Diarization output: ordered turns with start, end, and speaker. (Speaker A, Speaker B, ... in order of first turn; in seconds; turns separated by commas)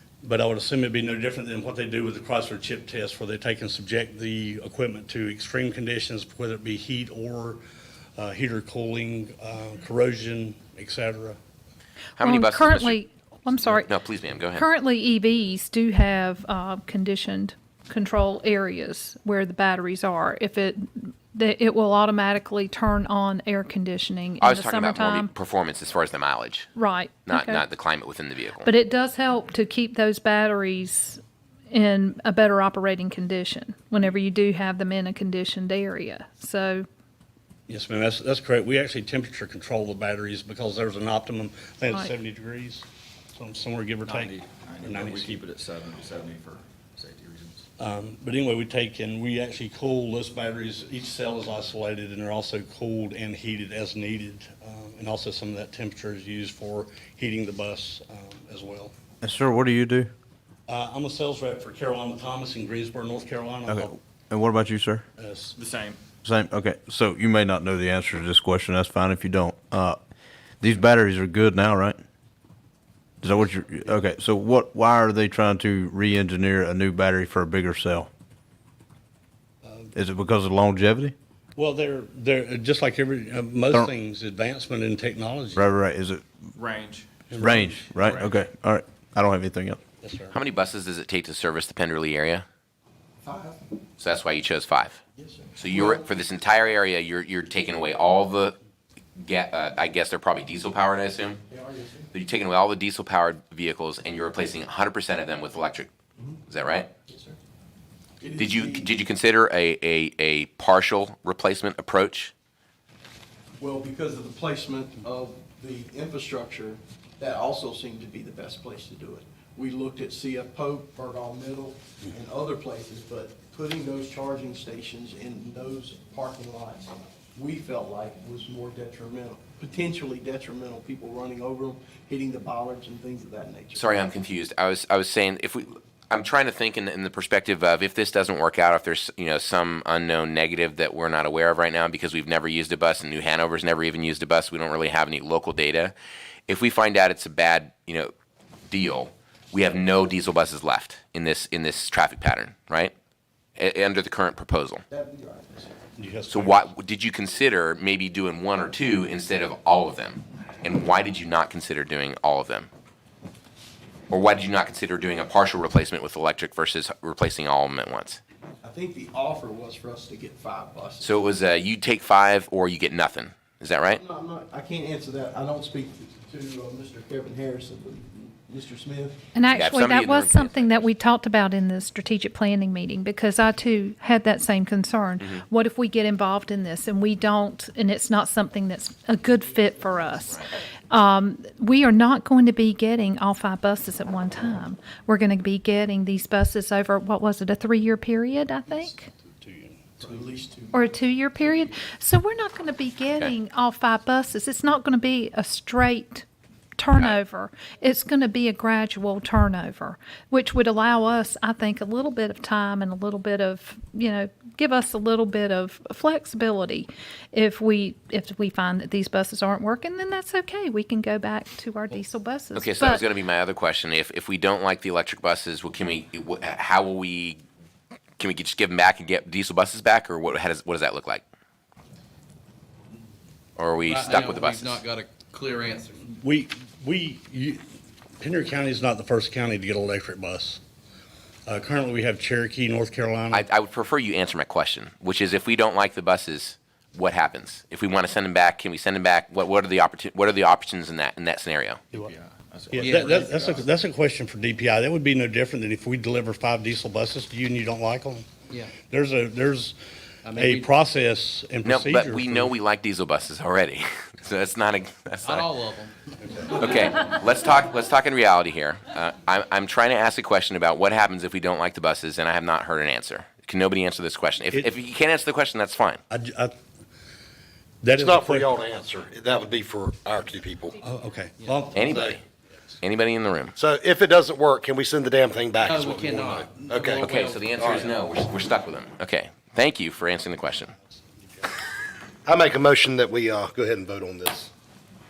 Speaker A: 0.2-7.6, Speaker A: 8.2-11.4, Speaker B: 12.2-13.0, Speaker C: 12.2-14.0, Speaker B: 13.7-14.7, Speaker C: 14.5-25.3, Speaker B: 24.4-26.7, Speaker C: 26.7-27.6, Speaker B: 27.3-28.7, Speaker C: 28.6-36.8, Speaker A: 37.7-45.4, Speaker C: 41.9-42.1, Speaker D: 44.0-47.6, Speaker A: 47.8-58.9, Speaker E: 59.2-60.1, Speaker A: 60.7-63.9, Speaker E: 63.7-65.0, Speaker A: 65.2-65.6, Speaker D: 65.6-66.0, Speaker E: 66.2-70.0, Speaker E: 70.6-72.0, Speaker E: 73.2-78.1, Speaker E: 79.9-81.1, Speaker A: 81.5-85.7, Speaker E: 85.5-86.2, Speaker D: 86.6-87.0, Speaker A: 87.3-87.8, Speaker E: 87.3-89.8, Speaker A: 90.0-90.4, Speaker B: 90.3-92.4, Speaker F: 93.2-93.6, Speaker B: 94.0-95.0, Speaker F: 95.2-96.1, Speaker B: 95.6-98.6, Speaker B: 99.2-101.4, Speaker F: 101.5-102.1, Speaker B: 102.1-105.9, Speaker B: 106.5-106.9, Speaker F: 107.1-107.4, Speaker F: 108.2-108.9, Speaker B: 108.3-112.3, Speaker F: 113.6-133.8, Speaker B: 133.7-145.9, Speaker B: 146.5-148.1, Speaker B: 148.7-152.9, Speaker B: 153.6-154.8, Speaker F: 154.9-155.8, Speaker A: 155.9-156.7, Speaker B: 156.3-162.7, Speaker B: 164.1-168.2, Speaker F: 168.6-171.1, Speaker B: 171.0-174.0, Speaker F: 174.0-179.2, Speaker C: 179.3-199.1, Speaker B: 179.5-180.9, Speaker A: 198.7-200.2, Speaker F: 200.0-200.9, Speaker C: 200.7-206.2, Speaker C: 206.8-223.1, Speaker B: 222.5-227.4, Speaker B: 228.2-231.2, Speaker B: 233.6-234.8, Speaker G: 233.8-235.9, Speaker A: 236.1-237.6, Speaker A: 238.2-240.6, Speaker A: 241.5-243.4, Speaker B: 243.3-251.8, Speaker D: 251.9-253.6, Speaker A: 252.7-258.3, Speaker A: 258.8-262.5, Speaker F: 260.2-260.7, Speaker B: 261.6-265.5, Speaker G: 265.2-265.9, Speaker B: 266.5-276.0, Speaker A: 276.1-276.6, Speaker A: 277.8-278.5, Speaker H: 277.9-280.8, Speaker A: 280.8-282.2, Speaker B: 281.7-282.2, Speaker B: 282.8-283.5, Speaker H: 283.6-287.0, Speaker G: 285.6-287.9, Speaker B: 286.9-290.7, Speaker A: 290.9-291.4, Speaker H: 292.2-294.5